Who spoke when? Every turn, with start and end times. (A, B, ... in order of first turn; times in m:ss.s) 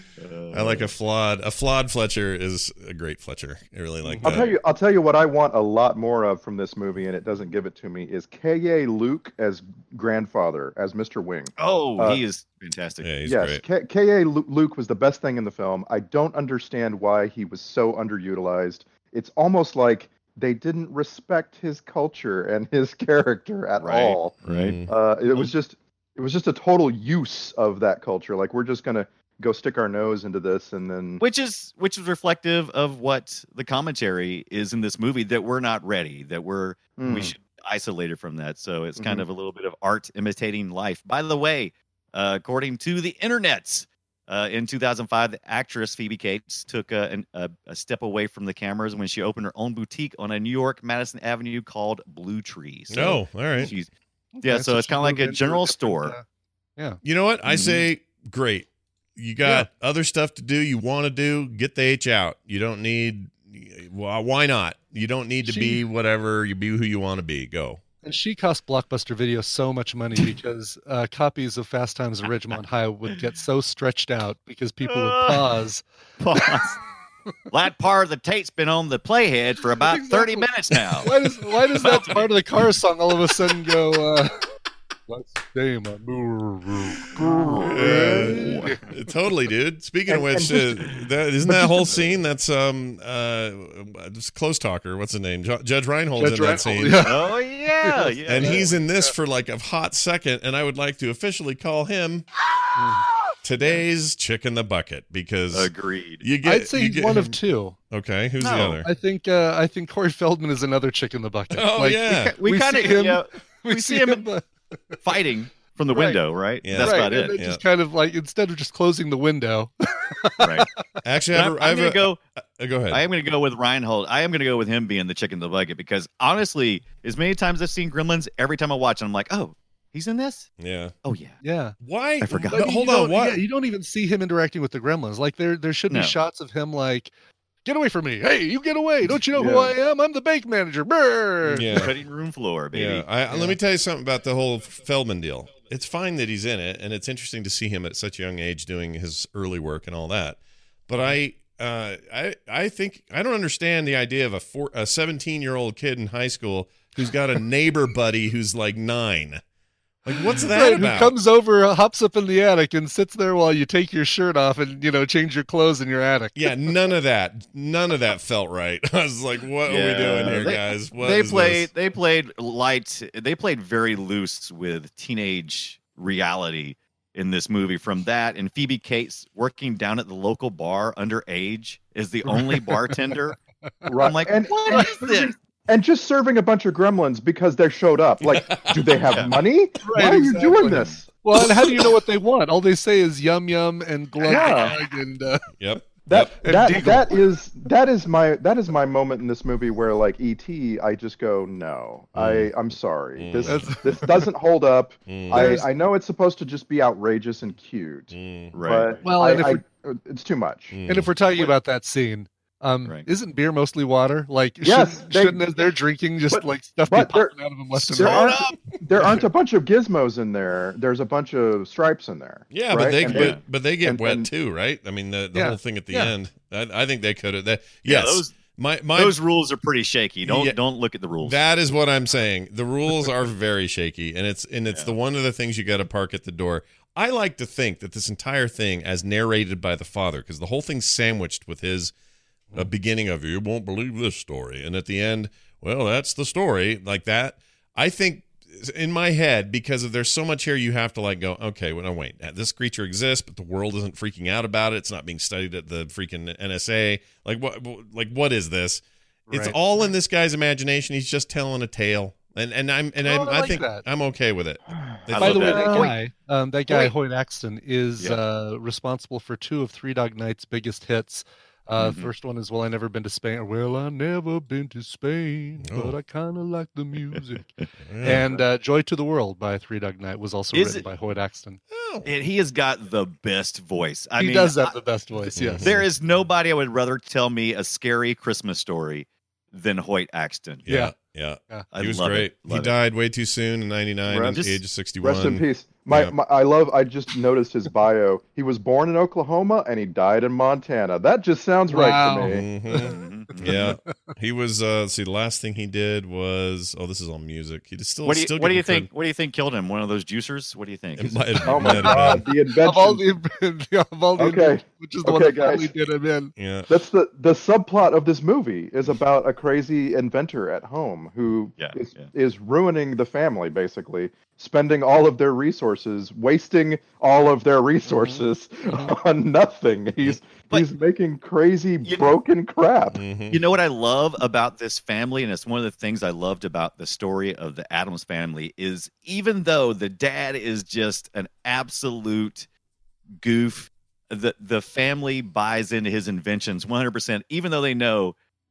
0:00.2-0:00.9 A
0:00.5-0:04.6 B
0:04.0-0:04.3 C
0:04.2-0:12.2 D
0:11.6-0:13.1 A
0:13.0-0:13.6 B
0:13.3-0:31.2 D
0:23.8-0:24.8 A
0:24.4-0:24.9 B
0:31.2-0:53.9 A
0:37.0-0:37.3 D
0:39.0-0:39.2 D
0:52.9-0:53.7 B
0:54.4-0:56.2 C
0:54.4-0:56.2 A
0:57.0-1:07.8 B
0:57.4-0:57.8 A
1:05.4-1:05.8 C
1:08.0-1:15.8 C
1:14.8-1:15.6 A
1:16.2-1:16.8 A
1:16.4-1:16.7 C
1:17.5-1:21.1 A
1:19.9-1:20.5 C
1:21.0-1:24.5 C
1:21.8-1:22.2 A
1:25.1-1:29.0 C
1:27.2-1:28.4 D
1:27.6-1:37.2 B
1:28.4-1:28.7 A
1:30.1-1:30.9 D
1:31.4-1:32.0 D
1:36.2-1:39.1 C
1:37.0-1:38.8 A
1:38.3-1:42.2 B
1:42.8-1:43.0 C
1:43.4-1:45.7 B
1:45.5-1:46.2 A
1:46.2-1:47.4 B
1:46.4-1:47.8 C
1:47.9-1:48.9 B
1:48.4-1:48.8 A
1:48.8-1:55.0 C
1:51.5-1:52.4 B
1:52.1-1:54.3 A
1:55.0-1:57.4 A
1:55.9-1:56.2 C
1:56.6-1:57.6 B
1:56.8-2:00.8 C
2:00.4-2:00.7 A
2:01.0-2:03.0 B
2:01.3-2:02.2 A
2:02.9-2:10.5 A
2:10.6-2:10.9 B
2:11.0-2:11.4 A
2:11.4-2:11.8 C
2:11.8-2:13.4 B
2:12.2-2:12.7 A
2:12.5-2:17.1 C
2:15.9-2:16.2 A
2:17.6-2:21.9 C
2:19.4-2:19.7 D
2:21.5-2:22.0 B
2:21.7-2:23.1 A
2:22.7-2:39.4 B
2:23.3-2:23.6 C
2:40.0-2:41.2 B
2:40.1-2:46.5 C
2:46.4-2:51.7 B
2:49.7-3:03.4 A
3:02.3-3:03.0 C
3:03.9-3:11.0 D
3:04.0-3:05.3 A
3:04.7-3:05.0 C
3:08.2-3:09.0 B
3:09.0-3:09.3 A
3:09.8-3:15.4 C
3:14.2-3:14.8 D
3:15.6-3:16.3 B
3:16.1-3:30.8 D
3:16.4-3:17.2 C
3:22.2-3:22.5 B
3:23.2-3:23.8 B
3:23.4-3:24.1 C
3:25.1-3:25.6 B
3:25.3-3:25.7 C
3:28.1-3:28.5 B
3:28.5-3:28.9 A
3:29.0-3:29.6 C
3:30.7-3:31.1 B
3:30.9-3:38.4 C
3:34.6-3:35.5 D
3:36.3-3:37.4 D
3:37.9-3:44.3 D
3:38.0-3:38.6 A
3:42.5-3:49.2 B
3:43.0-3:43.4 A
3:45.3-3:46.2 C
3:47.8-3:48.4 A
3:49.0-3:51.4 A
3:50.2-3:50.6 B
3:51.2-4:01.9 B
4:02.5-4:25.8 B
4:19.3-4:19.9 C
4:23.0-4:23.8 C
4:25.1-4:25.9 A
4:25.2-4:37.5 C
4:25.4-4:26.0 D
4:31.8-4:32.1 A
4:35.6-4:36.0 B
4:37.9-4:38.3 B
4:38.0-4:41.6 C
4:40.5-4:40.8 A
4:41.7-4:42.1 B
4:42.0-4:44.8 A
4:44.2-4:45.7 C
4:45.4-4:45.9 B
4:45.6-4:50.6 A
4:50.6-4:56.1 B
4:50.7-4:50.9 C
4:51.7-4:52.7 A
4:54.1-4:54.4 D
4:54.3-4:54.6 A
4:55.0-5:02.5 D
5:01.7-5:03.9 C
5:02.2-5:08.9 B
5:02.9-5:03.8 A
5:08.0-5:11.8 A
5:11.0-5:12.3 B
5:11.5-5:13.0 D
5:11.8-5:16.3 C
5:14.2-5:15.7 D
5:16.4-5:16.7 B
5:16.7-5:33.0 D
5:21.6-5:22.1 A
5:27.9-5:28.9 C
5:30.0-5:30.7 A
5:31.8-5:32.1 A
5:32.9-5:33.4 B
5:33.3-5:42.5 A
5:43.2-5:48.2 A